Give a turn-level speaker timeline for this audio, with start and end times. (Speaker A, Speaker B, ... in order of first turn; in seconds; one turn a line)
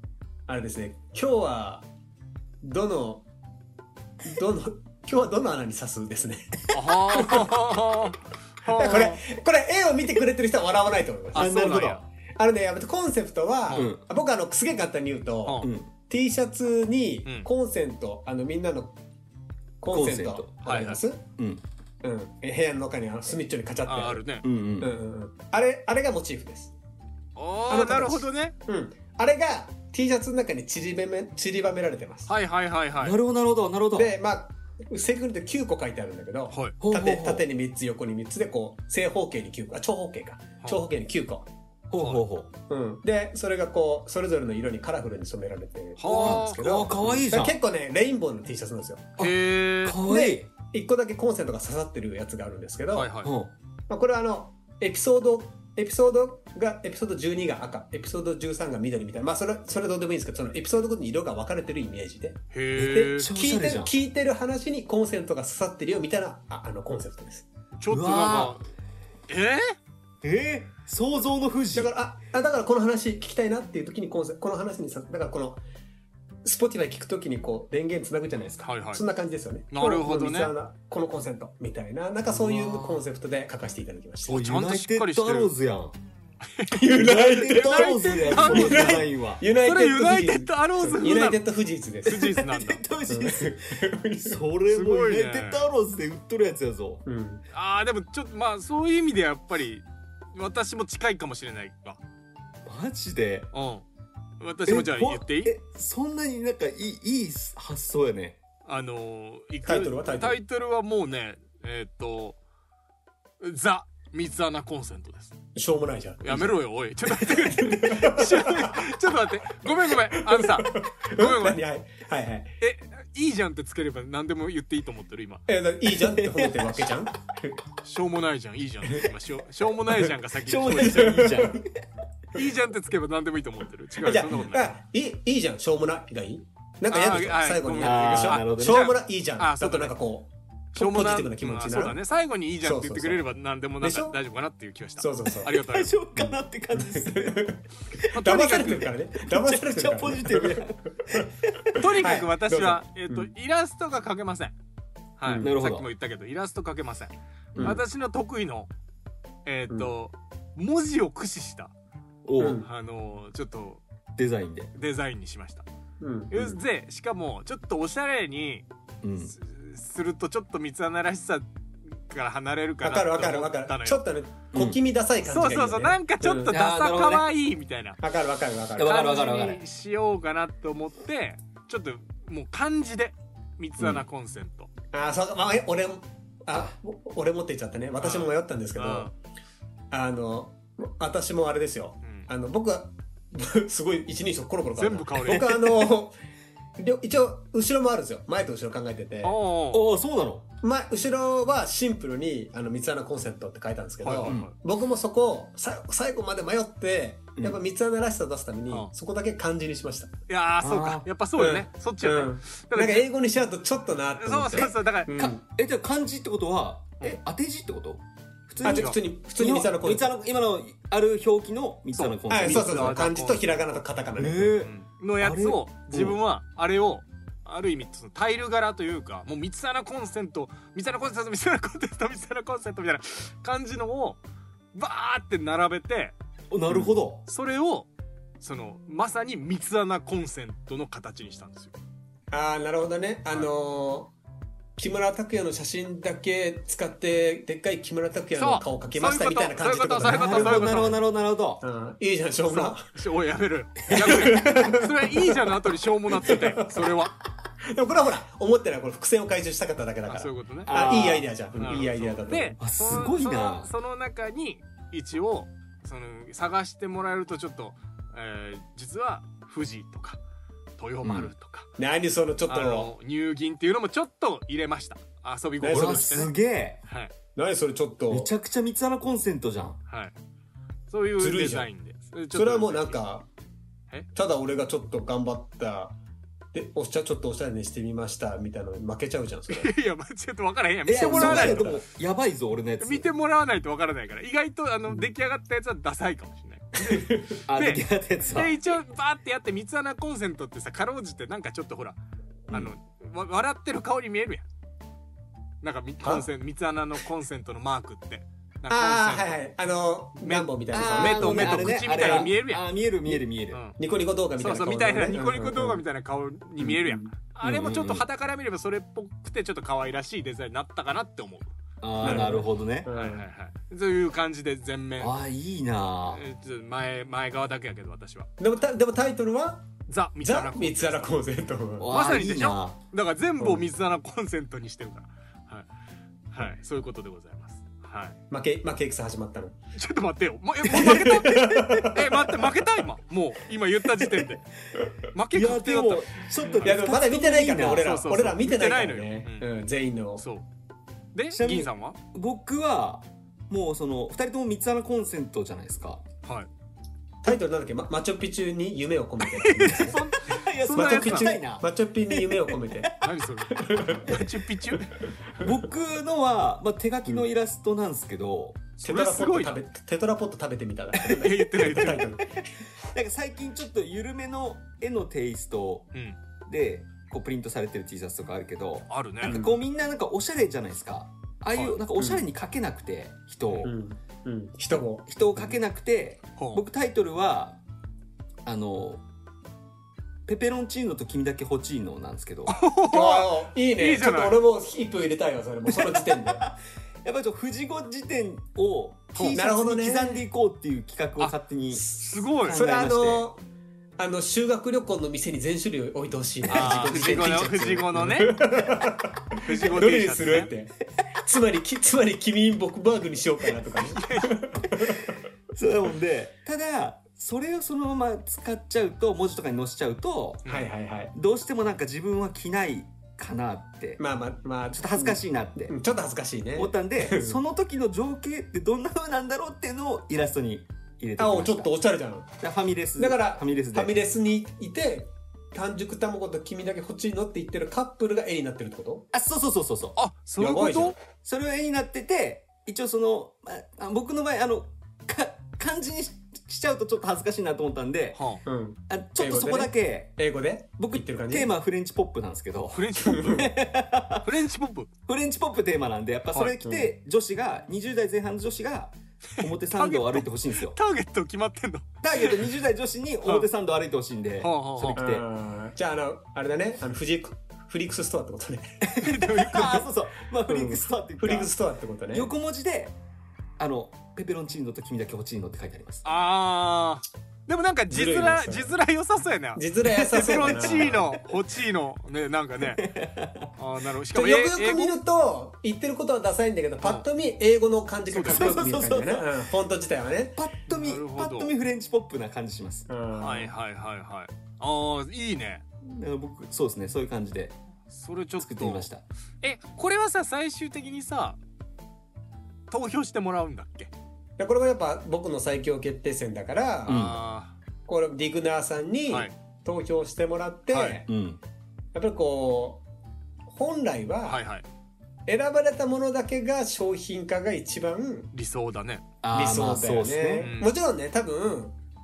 Speaker A: 0.5-1.8
Speaker A: 2.6-3.2
Speaker A: 4.2-7.5
Speaker B: 6.7-9.2
Speaker A: 8.7-11.6
Speaker B: 11.3-12.0
Speaker C: 11.3-12.0
Speaker A: 12.3-18.9
Speaker C: 13.7-14.0
Speaker B: 15.4-15.7
Speaker C: 15.6-15.9
Speaker A: 19.8-21.2
Speaker C: 19.9-20.5
Speaker B: 20.6-21.0
Speaker C: 21.4-21.6
Speaker A: 22.0-24.2
Speaker B: 23.9-24.4
Speaker C: 24.4-24.9
Speaker A: 24.8-26.7
Speaker B: 27.4-28.5
Speaker A: 27.7-32.3
Speaker B: 32.3-33.2
Speaker C: 33.0-34.1
Speaker A: 33.9-41.5
Speaker C: 36.8-37.5
Speaker C: 41.9-42.5
Speaker B: 42.0-42.2
Speaker A: 42.7-49.1
Speaker B: 46.0-46.8
Speaker C: 46.1-47.6
Speaker C: 49.2-50.5
Speaker B: 49.2-50.0
Speaker A: 50.0-53.1
Speaker B: 52.9-53.3
Speaker C: 53.2-53.5
Speaker A: 53.9-67.5
Speaker B: 62.5-63.3
Speaker C: 62.8-63.9
Speaker B: 67.7-68.7
Speaker C: 67.9-68.5
Speaker B: 69.3-69.8
Speaker C: 70.2-71.9
Speaker A: 71.7-75.6
Speaker A: 76.4-84.5
Speaker B: 78.6-79.0
Speaker B: 79.7-80.5
Speaker C: 82.3-83.0
Speaker B: 84.3-85.5
Speaker C: 84.3-86.0
Speaker B: 86.4-91.4
Speaker A: 86.7-92.3
Speaker C: 86.9-89.4
Speaker B: 92.0-92.8
Speaker C: 92.3-97.0
Speaker A: 93.1-94.4
Speaker B: 94.7-95.6
Speaker A: 97.0-97.4
Speaker B: 97.5-102.0
Speaker C: 102.6-103.5
Speaker B: 103.5-103.8
Speaker B: 104.4-105.5
Speaker C: 104.7-108.4
Speaker B: 108.7-112.4
Speaker A: 109.7-110.4
Speaker B: 113.4-115.3
Speaker A: 115.5-116.5
Speaker B: 116.2-121.6
Speaker A: 117.1-118.8
Speaker A: 120.1-122.5
Speaker B: 122.6-125.4
Speaker A: 125.5-127.6
Speaker C: 125.9-126.9
Speaker B: 127.8-131.4
Speaker C: 130.4-131.8
Speaker A: 130.7-131.6
Speaker B: 132.3-134.8
Speaker A: 134.0-142.0
Speaker B: 136.9-139.9
Speaker C: 137.8-138.9
Speaker B: 140.7-145.9
Speaker A: 142.6-144.2
Speaker A: 145.0-145.5
Speaker C: 145.5-147.4
Speaker A: 146.2-153.3
Speaker B: 148.1-148.9
Speaker C: 149.2-151.8
Speaker B: 151.7-154.5
Speaker B: 155.2-158.7
Speaker A: 155.2-155.5
Speaker C: 155.4-155.9
Speaker A: 157.5-157.8
Speaker B: 159.4-161.7
Speaker C: 162.2-162.6
Speaker A: 162.4-162.7
Speaker B: 162.6-163.8
Speaker C: 164.2-164.7
Speaker B: 164.7-165.6
Speaker A: 166.0-166.6
Speaker B: 166.3-168.7
Speaker C: 169.0-169.3
Speaker B: 169.3-171.4
Speaker B: 172.1-174.0
Speaker A: 172.8-176.6
Speaker C: 174.5-174.8
Speaker B: 175.2-178.0
Speaker C: 176.5-177.3
Speaker A: 178.0-179.1
Speaker C: 178.8-179.6
Speaker B: 178.8-184.7
Speaker C: 183.8-184.0
Speaker A: 184.9-189.1
Speaker B: 188.0-189.1
Speaker A: 189.9-196.1
Speaker B: 192.0-192.3
Speaker B: 194.8-195.5
Speaker A: 196.8-199.4
Speaker B: 199.2-199.8
Speaker C: 199.7-200.5
Speaker A: 200.6-210.1
Speaker B: 204.0-204.5
Speaker B: 210.3-213.1
Speaker C: 210.6-211.1
Speaker A: 211.4-215.4
Speaker B: 214.2-215.3
Speaker C: 215.2-223.0
Speaker B: 218.6-219.0
Speaker A: 218.6-220.1
Speaker B: 222.0-223.8
Speaker A: 222.3-224.6
Speaker C: 224.2-226.2
Speaker B: 224.6-234.2
Speaker B: 234.7-236.1
Speaker C: 236.5-237.2
Speaker A: 236.7-236.9
Speaker B: 237.2-237.9
Speaker B: 238.4-241.7
Speaker A: 242.3-244.1
Speaker A: 244.8-251.0
Speaker B: 248.3-251.0
Speaker C: 250.0-251.6
Speaker A: 251.6-252.9
Speaker B: 252.5-257.1
Speaker A: 253.9-255.5
Speaker A: 256.2-256.9
Speaker A: 257.7-262.6
Speaker B: 260.1-260.8
Speaker C: 260.7-261.3
Speaker B: 261.6-270.2
Speaker C: 262.6-263.7
Speaker B: 270.8-271.7
Speaker C: 271.0-271.3
Speaker A: 271.8-272.9
Speaker B: 272.5-276.3
Speaker A: 275.6-276.3
Speaker C: 275.7-276.8
Speaker B: 276.9-277.1
Speaker A: 277.4-278.3
Speaker C: 278.1-279.8
Speaker B: 279.9-280.1
Speaker B: 280.9-283.0
Speaker A: 281.2-281.7
Speaker A: 282.3-283.3
Speaker A: 284.1-285.9
Speaker A: 286.5-289.7
Speaker B: 289.5-291.8
Speaker C: 290.9-293.1
Speaker A: 290.9-291.8
Speaker B: 292.8-302.0
Speaker A: 296.9-297.4
Speaker C: 297.5-298.6
Speaker B: 302.5-304.4
Speaker B: 305.6-309.4
Speaker A: 308.7-312.3
Speaker B: 310.2-312.6
Speaker C: 310.7-313.6
Speaker B: 313.5-313.8
Speaker A: 313.8-315.8
Speaker B: 314.4-325.2
Speaker A: 316.6-317.1
Speaker C: 317.4-318.0
Speaker C: 321.8-322.9
Speaker A: 322.0-323.2
Speaker C: 325.0-326.2
Speaker B: 326.1-328.3
Speaker A: 328.4-329.7
Speaker B: 329.9-331.2
Speaker A: 330.2-331.9
Speaker C: 331.8-332.8
Speaker B: 331.9-335.7
Speaker B: 336.3-338.2
Speaker A: 338.3-339.6
Speaker B: 339.7-344.4
Speaker A: 340.7-342.3
Speaker B: 345.1-346.7
Speaker C: 345.3-348.0
Speaker A: 346.6-350.2
Speaker B: 347.7-349.5
Speaker B: 350.2-350.4
Speaker B: 351.1-352.0
Speaker C: 351.3-356.0
Speaker B: 356.2-356.5
Speaker A: 357.2-360.0
Speaker B: 359.4-361.3
Speaker C: 360.3-362.9
Speaker A: 360.7-362.9
Speaker B: 363.0-364.9
Speaker A: 363.5-364.2
Speaker C: 365.4-368.6
Speaker A: 368.8-372.4
Speaker B: 368.8-369.6
Speaker C: 371.0-375.9
Speaker B: 371.1-372.1
Speaker C: 376.4-383.7
Speaker B: 378.9-379.4
Speaker A: 379.2-379.6
Speaker A: 382.0-382.2
Speaker B: 383.5-383.7
Speaker A: 383.6-385.1
Speaker C: 385.1-387.6
Speaker B: 386.4-386.6
Speaker C: 388.4-389.0
Speaker C: 390.2-392.6
Speaker B: 392.5-394.4
Speaker A: 392.9-396.5
Speaker C: 395.8-403.3
Speaker B: 399.1-399.4
Speaker A: 399.3-400.2
Speaker B: 401.2-402.6
Speaker A: 401.9-403.4
Speaker A: 404.0-415.2
Speaker C: 406.5-408.1
Speaker B: 406.5-408.4
Speaker B: 409.4-410.5
Speaker B: 413.8-414.4
Speaker C: 415.5-420.4
Speaker B: 420.4-420.7
Speaker A: 420.5-421.1
Speaker C: 421.1-424.0
Speaker A: 424.0-427.4
Speaker C: 424.7-425.7
Speaker C: 426.6-431.7
Speaker A: 431.2-432.3
Speaker C: 432.4-434.0
Speaker A: 433.0-439.1
Speaker C: 439.1-440.0
Speaker B: 439.9-440.9
Speaker A: 440.4-441.0
Speaker C: 441.2-448.2
Speaker B: 448.1-448.4
Speaker A: 448.4-451.5
Speaker C: 448.9-450.2
Speaker C: 450.8-454.3
Speaker B: 452.7-453.5
Speaker A: 453.1-453.5
Speaker B: 454.2-454.9
Speaker C: 455.1-460.8
Speaker B: 456.3-456.6
Speaker A: 456.6-456.9
Speaker B: 459.4-462.5
Speaker C: 462.0-465.2
Speaker B: 464.4-465.0
Speaker A: 464.9-468.9
Speaker C: 468.8-471.5
Speaker B: 469.0-469.8
Speaker A: 469.5-469.8
Speaker A: 470.5-472.3
Speaker C: 472.1-472.9
Speaker C: 473.6-476.0
Speaker B: 476.0-482.9
Speaker A: 477.9-478.7
Speaker A: 479.6-481.0
Speaker C: 480.2-481.2
Speaker C: 482.6-483.5
Speaker B: 483.6-485.0
Speaker A: 484.1-490.4
Speaker B: 488.1-488.8
Speaker C: 488.2-489.4
Speaker C: 490.4-492.9
Speaker B: 490.7-491.5
Speaker A: 492.9-493.5
Speaker B: 493.1-495.6
Speaker C: 495.8-497.5
Speaker B: 497.9-498.9
Speaker C: 498.4-499.0
Speaker B: 499.4-501.4
Speaker B: 502.7-503.9
Speaker A: 504.4-507.1
Speaker B: 506.9-507.6
Speaker C: 506.9-507.2
Speaker A: 507.9-511.1
Speaker B: 510.7-511.0
Speaker C: 511.1-511.4
Speaker A: 511.9-512.8
Speaker A: 513.5-514.4
Speaker B: 514.3-514.6
Speaker A: 515.3-518.3
Speaker B: 518.3-519.0
Speaker C: 519.2-520.5
Speaker A: 519.3-521.8
Speaker B: 520.4-520.7